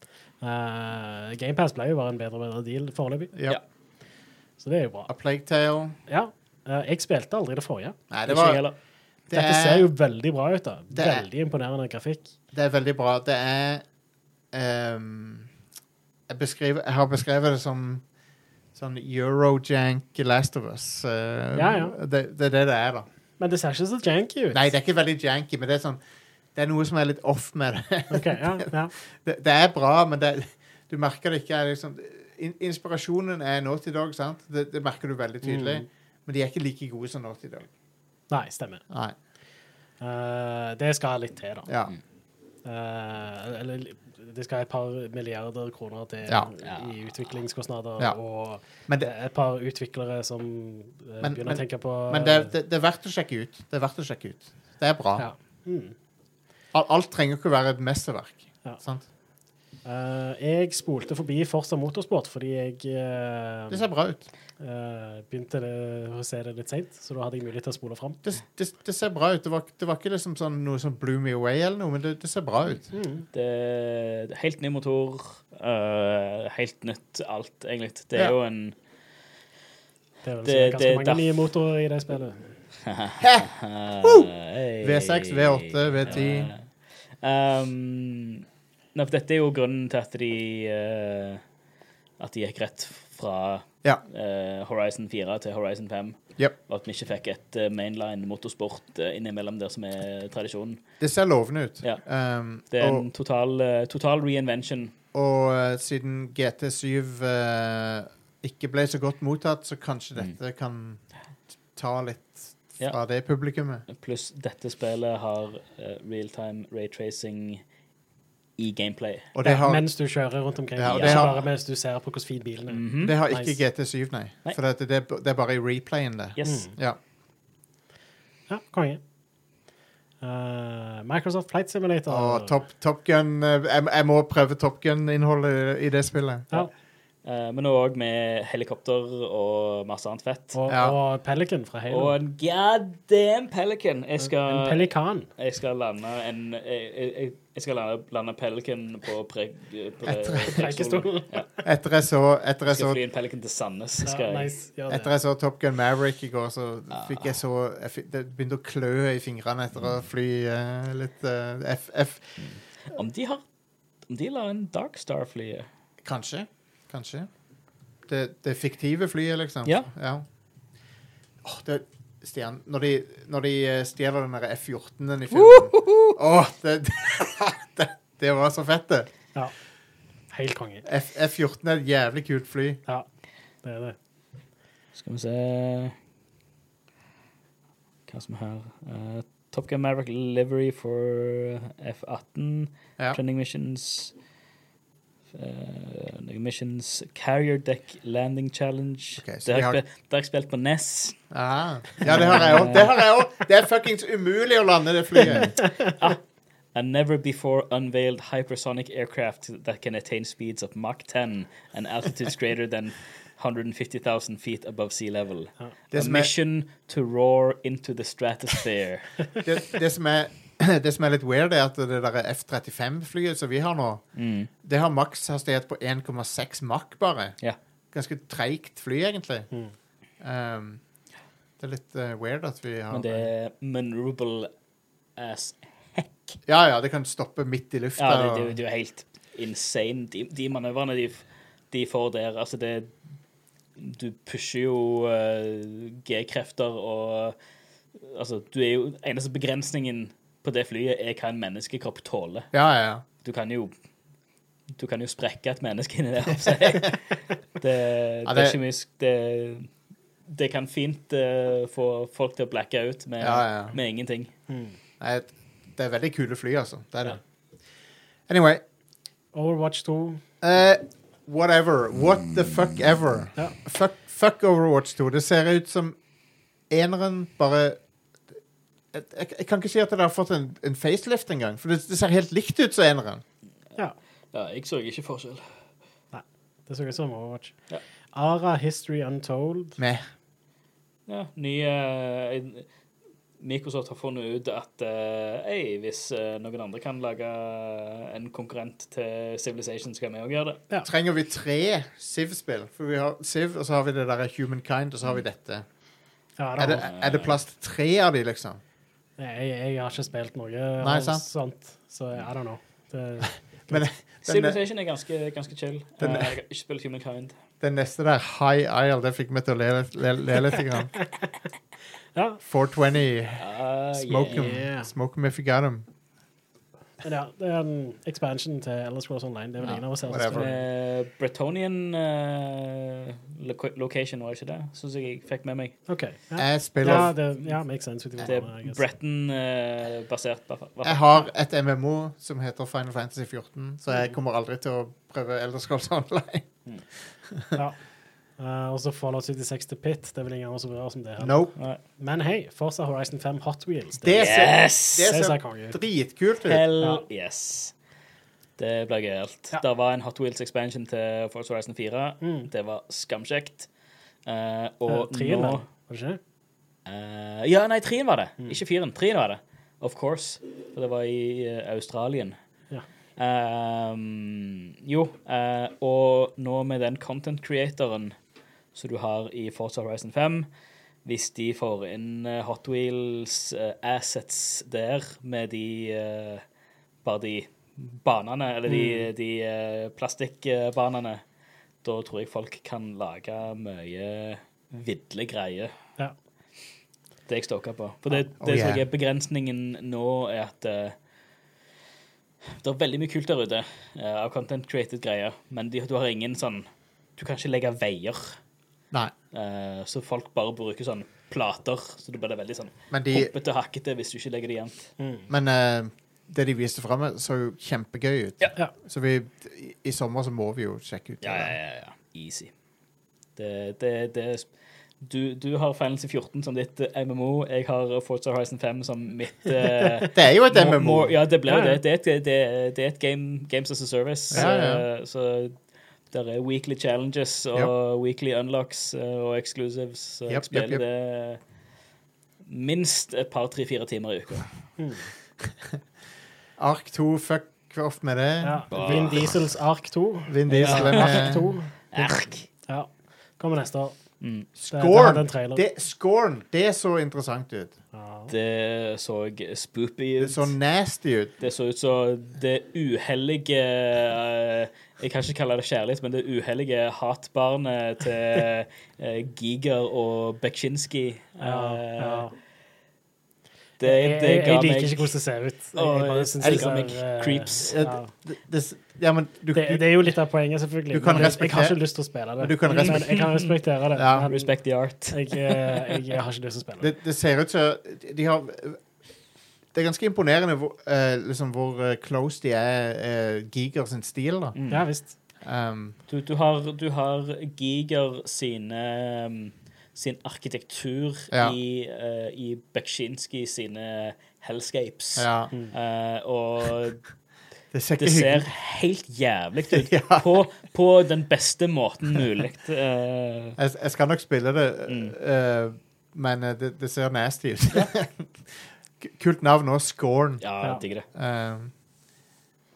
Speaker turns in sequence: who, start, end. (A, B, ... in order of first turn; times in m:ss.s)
0:00.4-0:03.3 A
0:03.3-0:03.6 B
0:04.6-0:05.1 A
0:05.1-0:06.0 B
0:06.1-0:08.0 A
0:08.1-0:08.6 B
0:08.3-0:08.7 C
0:09.3-0:09.9 B
0:09.3-0:12.3 A
0:10.9-0:11.2 B
0:12.5-0:13.8 B
0:14.5-0:15.5 B
0:16.3-0:18.0 B
0:18.7-0:23.0 B
0:21.5-0:22.0 A
0:23.4-0:24.7 A
0:24.5-0:26.0 B
0:26.5-0:37.7 B
0:28.1-0:28.9 A
0:35.4-0:35.8 A
0:38.3-0:38.8 A
0:38.9-0:39.1 B
0:40.0-0:41.7 A
0:41.6-0:41.9 B
0:42.6-0:52.5 A
0:46.6-0:46.9 C
0:51.2-0:55.2 B
0:55.2-0:55.9 A
0:56.7-0:59.0 B
0:59.8-1:03.9 A
1:03.7-1:04.2 B
1:04.6-1:08.2 A
1:08.2-1:12.9 B
1:12.9-1:13.2 A
1:13.3-1:18.7 C
1:20.2-1:22.6 A
1:20.4-1:21.3 C
1:22.8-1:26.6 C
1:23.2-1:23.5 B
1:24.0-1:26.5 B
1:27.2-1:31.4 C
1:32.2-1:40.8 C
1:41.0-1:43.1 B
1:42.7-1:44.9 C
1:45.1-1:51.0 B
1:51.8-1:53.8 B
1:53.9-1:57.6 C
1:58.6-1:59.3 C
1:59.3-1:59.9 B
1:59.4-2:03.6 A
2:00.8-2:01.4 B
2:00.9-2:01.4 C
2:02.7-2:03.1 C
2:03.0-2:07.0 B
2:06.4-2:06.6 C
2:06.4-2:06.7 A
2:08.5-2:09.0 A
2:10.2-2:12.6 A
2:12.1-2:16.5 B
2:17.2-2:20.6 C
2:20.5-2:22.2 A
2:20.7-2:21.0 B
2:21.9-2:31.5 C
2:24.2-2:25.3 A
2:30.0-2:30.7 B
2:30.5-2:31.4 A
2:31.6-2:33.0 B
2:32.7-2:34.5 C
2:34.0-2:35.1 A
2:34.9-2:42.4 B
2:36.9-2:37.4 C
2:42.4-2:43.4 C
2:44.1-2:45.7 C
2:46.0-2:47.3 B
2:48.1-2:50.2 B
2:51.4-2:59.1 B
2:55.3-2:56.2 C
3:00.3-3:00.8 A
3:00.8-3:02.8 B
3:03.6-3:04.0 A
3:04.9-3:06.0 C
3:08.1-3:14.1 C
3:15.3-3:21.2 C
3:19.2-3:19.8 B
3:21.3-3:25.6 B
3:22.0-3:22.9 C
3:25.3-3:26.2 C
3:26.7-3:39.2 C
3:35.9-3:36.3 B
3:39.4-3:44.0 B
3:44.2-3:44.5 C
3:44.6-3:47.4 B
3:47.9-3:49.5 B
3:50.2-3:50.8 B
3:51.6-3:53.3 B
3:52.9-3:54.5 C
3:55.2-3:56.4 C
3:56.4-3:58.6 B
3:58.0-4:02.9 C
4:03.8-4:07.4 C
4:08.0-4:12.5 C
4:12.5-4:13.0 B
4:13.2-4:13.7 C
4:14.8-4:19.7 C
4:18.2-4:18.6 B
4:20.3-4:24.3 C
4:23.2-4:23.8 B
4:24.5-4:24.7 A
4:25.0-4:27.2 B
4:28.3-4:28.6 B
4:29.3-4:30.2 A
4:30.4-4:36.0 B
4:36.7-4:37.8 B
4:38.9-4:43.2 B
4:44.3-4:45.4 C
4:46.1-4:47.5 A
4:48.1-4:49.8 A
4:49.8-4:50.0 B
4:51.1-4:52.6 C
4:53.4-5:00.6 C
5:00.8-5:05.6 B
5:06.4-5:06.9 A
5:06.6-5:08.6 B
5:06.8-5:07.3 C
5:09.2-5:13.9 A
5:10.8-5:11.2 B
5:13.7-5:14.6 B
5:14.2-5:17.4 C
5:16.0-5:16.4 B
5:17.6-5:20.9 B
5:22.1-5:22.4 A
5:22.4-5:25.8 B
5:23.4-5:24.5 C
5:24.3-5:24.9 A
5:27.0-5:30.5 A
5:29.6-5:30.5 B
5:30.3-5:35.8 C
5:35.9-5:38.8 A
5:36.4-5:37.1 B
5:38.2-5:41.2 C
5:40.8-5:46.5 B
5:47.3-5:47.6 B
5:48.4-5:54.5 A
5:51.2-5:51.5 B
5:54.0-5:56.6 B
5:54.2-5:55.1 C
5:55.0-5:55.8 A
5:56.4-5:57.7 C
5:58.6-6:03.7 C
6:02.2-6:02.5 A
6:04.2-6:05.6 C
6:04.9-6:06.2 A
6:06.8-6:12.4 C
6:13.2-6:18.2 C
6:18.7-6:20.5 C
6:21.0-6:26.4 C
6:27.0-6:31.2 C
6:28.7-6:29.0 A
6:31.8-6:35.7 C
6:37.3-6:41.0 C
6:38.4-6:38.8 B
6:42.6-6:46.6 C
6:47.2-6:48.4 C
6:49.3-6:54.9 C
6:52.9-6:53.3 B
6:55.0-6:55.3 A
6:55.3-7:01.5 B
7:01.2-7:02.5 C
7:03.4-7:04.5 C
7:05.0-7:15.6 C
7:10.1-7:11.1 B
7:11.5-7:11.8 A
7:14.3-7:14.8 B
7:16.1-7:21.4 C
7:20.3-7:20.8 B
7:22.5-7:24.5 C
7:24.8-7:25.1 A
7:26.6-7:29.3 B
7:28.4-7:34.0 A
7:28.7-7:29.4 C
7:30.3-7:31.5 B
7:30.6-7:31.4 C
7:31.9-7:32.5 C
7:34.2-7:34.5 C
7:34.6-7:37.7 B
7:34.7-7:35.6 A
7:37.9-7:38.3 A
7:38.3-7:40.5 C
7:40.2-7:41.3 B
7:41.4-7:52.3 C
7:51.4-7:52.3 A
7:53.8-7:55.1 C
7:53.8-7:58.1 A
7:55.7-7:57.8 C
7:57.6-7:59.9 B
7:59.5-8:04.6 A
8:00.9-8:01.8 B
8:02.4-8:03.1 B
8:02.8-8:03.5 C
8:03.9-8:04.3 B
8:04.3-8:06.0 C
8:05.1-8:06.9 A
8:06.8-8:08.8 B
8:09.7-8:14.6 B
8:14.5-8:14.8 C
8:14.7-8:15.1 A
8:15.4-8:16.0 B
8:16.1-8:27.0 C
8:25.2-8:25.5 B
8:27.7-8:28.5 B
8:28.0-8:33.6 C
8:29.7-8:30.3 B
8:33.6-8:38.3 B
8:34.9-8:35.1 C
8:39.0-8:40.5 B
8:40.4-8:41.0 C
8:41.1-8:41.7 B